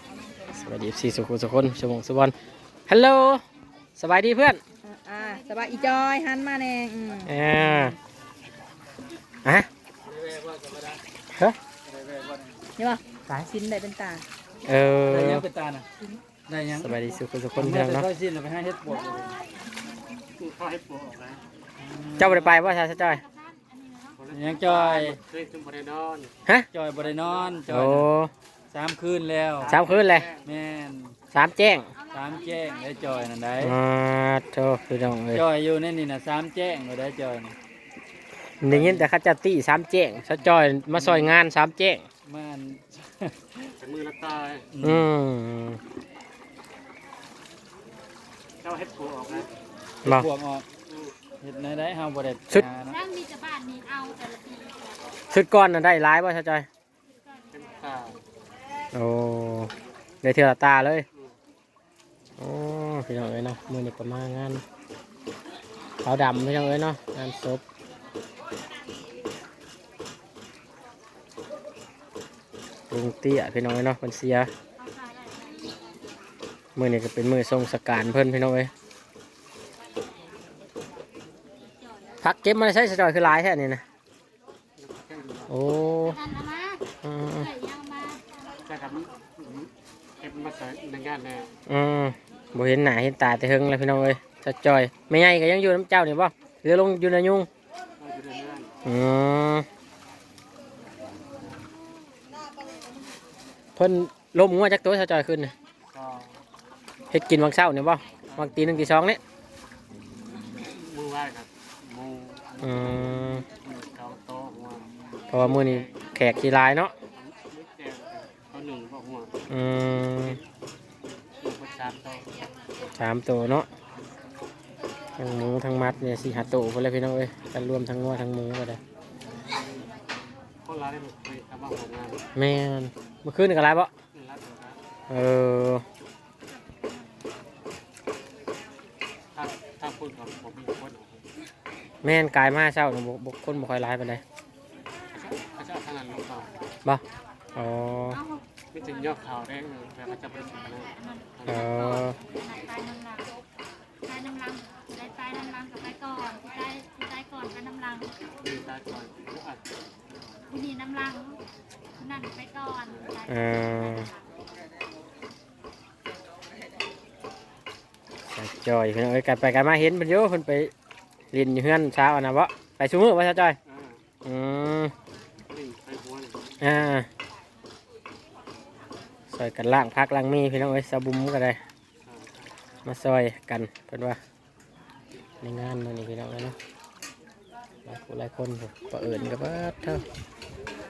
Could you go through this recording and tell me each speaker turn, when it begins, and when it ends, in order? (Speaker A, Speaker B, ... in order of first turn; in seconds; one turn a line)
Speaker A: 0.5-2.3
Speaker A: 2.9-3.4
Speaker A: 4.0-4.6
Speaker B: 4.8-7.3
Speaker A: 7.2-7.9
Speaker C: 7.7-7.9
Speaker C: 10.0-11.0
Speaker C: 11.8-12.6
Speaker B: 12.8-14.2
Speaker A: 14.6-15.4
Speaker C: 15.1-19.4
Speaker A: 16.7-18.1
Speaker D: 20.4-21.4
Speaker C: 21.8-22.6
Speaker A: 22.2-23.2
Speaker E: 23.1-24.2
Speaker D: 24.2-26.3
Speaker C: 24.3-25.2
Speaker C: 26.7-28.1
Speaker D: 27.0-27.6
Speaker A: 27.7-28.3
Speaker C: 28.7-29.8
Speaker D: 29.6-30.4
Speaker A: 29.7-30.3
Speaker C: 30.4-31.1
Speaker A: 31.3-31.9
Speaker E: 31.9-33.4
Speaker C: 32.1-33.8
Speaker A: 33.6-35.4
Speaker C: 35.3-37.5
Speaker A: 38.6-42.0
Speaker C: 38.6-39.1
Speaker C: 40.9-41.4
Speaker C: 42.2-43.8
Speaker D: 43.8-44.7
Speaker C: 44.7-45.1
Speaker A: 44.8-45.8
Speaker D: 48.6-49.5
Speaker C: 50.0-50.7
Speaker D: 50.9-51.1
Speaker C: 51.4-53.0
Speaker E: 52.9-55.0
Speaker A: 55.3-56.6
Speaker D: 57.5-58.2
Speaker A: 58.9-59.7
Speaker A: 60.2-61.0
Speaker A: 62.4-64.6
Speaker A: 66.0-67.6
Speaker A: 72.9-74.5
Speaker E: 74.8-75.8
Speaker A: 76.8-78.7
Speaker E: 81.8-82.1
Speaker A: 82.2-83.8
Speaker D: 84.8-85.5
Speaker A: 85.5-86.2
Speaker E: 86.1-86.8
Speaker A: 87.0-87.5
Speaker E: 87.4-88.4
Speaker D: 88.6-91.5
Speaker A: 91.7-97.5
Speaker D: 98.0-98.7
Speaker A: 98.8-99.7
Speaker A: 103.8-105.5
Speaker D: 105.9-106.4
Speaker A: 107.1-109.2
Speaker D: 108.3-108.6
Speaker D: 110.5-113.1
Speaker A: 112.6-113.4
Speaker D: 113.6-116.1
Speaker A: 115.3-116.9
Speaker D: 117.1-119.3
Speaker A: 119.5-120.4
Speaker D: 121.4-122.4
Speaker A: 122.9-123.7
Speaker A: 125.2-128.8
Speaker D: 130.6-132.2
Speaker A: 132.3-133.9
Speaker D: 134.1-134.8
Speaker A: 135.1-135.8
Speaker D: 139.3-141.2
Speaker A: 142.0-144.2
Speaker D: 145.1-146.5
Speaker A: 147.5-148.2
Speaker E: 148.1-148.4
Speaker D: 148.7-151.7
Speaker E: 151.0-153.3
Speaker A: 151.5-152.2
Speaker E: 154.0-158.1
Speaker D: 158.4-159.6
Speaker E: 160.5-161.4
Speaker E: 162.0-164.2
Speaker A: 163.3-164.1
Speaker A: 168.3-170.7
Speaker A: 171.3-173.6
Speaker D: 173.7-174.0
Speaker A: 174.2-174.9
Speaker D: 175.5-176.4
Speaker A: 176.6-177.1
Speaker A: 179.3-181.6
Speaker D: 182.0-182.5
Speaker A: 182.8-184.2
Speaker A: 185.4-186.6
Speaker A: 187.8-190.0